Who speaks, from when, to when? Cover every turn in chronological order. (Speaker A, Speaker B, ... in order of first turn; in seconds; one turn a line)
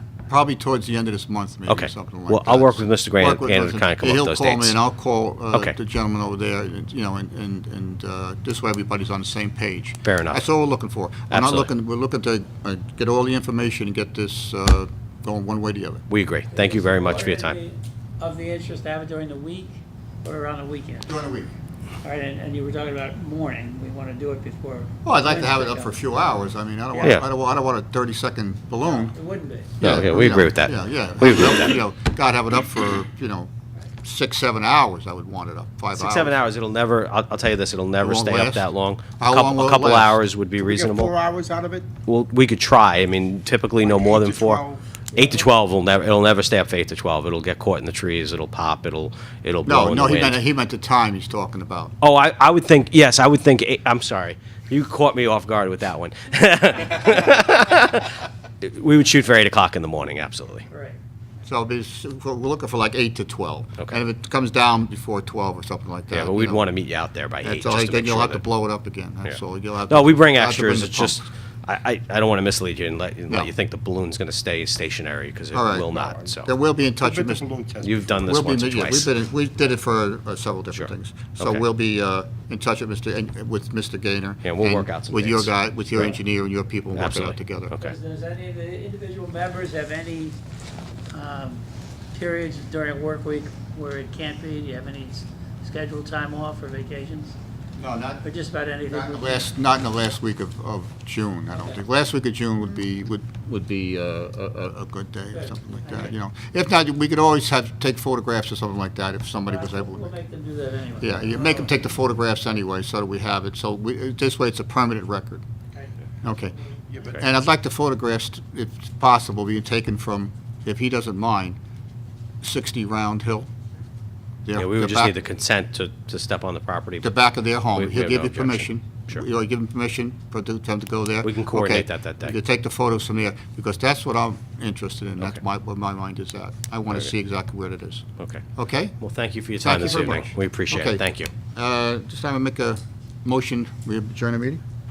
Speaker A: 0.3-16.0
Speaker B: 1.7-4.8
Speaker B: 10.0-10.4
Speaker B: 11.3-11.7
Speaker B: 16.1-17.6
Speaker C: 16.5-21.1
Speaker A: 21.0-21.5
Speaker C: 22.0-26.0
Speaker A: 25.0-29.1
Speaker C: 28.8-29.8
Speaker A: 29.8-33.5
Speaker B: 29.8-31.8
Speaker A: 34.0-36.4
Speaker B: 35.9-41.1
Speaker A: 38.0-38.6
Speaker A: 39.2-40.1
Speaker D: 40.6-41.9
Speaker B: 42.0-50.4
Speaker D: 43.8-45.4
Speaker A: 49.6-51.9
Speaker B: 52.0-60.7
Speaker C: 60.7-61.0
Speaker A: 61.4-66.6
Speaker B: 66.1-68.4
Speaker A: 67.4-71.2
Speaker B: 69.9-76.5
Speaker A: 75.5-75.9
Speaker A: 76.4-77.5
Speaker D: 77.0-78.0
Speaker B: 77.8-79.1
Speaker A: 78.1-87.7
Speaker B: 80.7-81.6
Speaker B: 84.4-86.1
Speaker B: 87.0-87.9
Speaker C: 87.8-90.4
Speaker C: 91.1-97.4
Speaker A: 97.8-98.2
Speaker C: 98.2-99.4
Speaker A: 98.8-110.1
Speaker C: 105.3-106.1
Speaker C: 109.5-111.7
Speaker A: 111.0-115.4
Speaker C: 115.7-116.8
Speaker A: 116.2-116.5
Speaker D: 116.9-117.2
Speaker A: 117.2-121.6
Speaker A: 122.4-123.5
Speaker A: 124.4-125.2
Speaker B: 124.5-127.1
Speaker A: 127.0-138.9
Speaker B: 127.7-129.2
Speaker B: 131.2-132.3
Speaker B: 139.0-141.3
Speaker A: 139.6-141.0
Speaker A: 141.5-144.6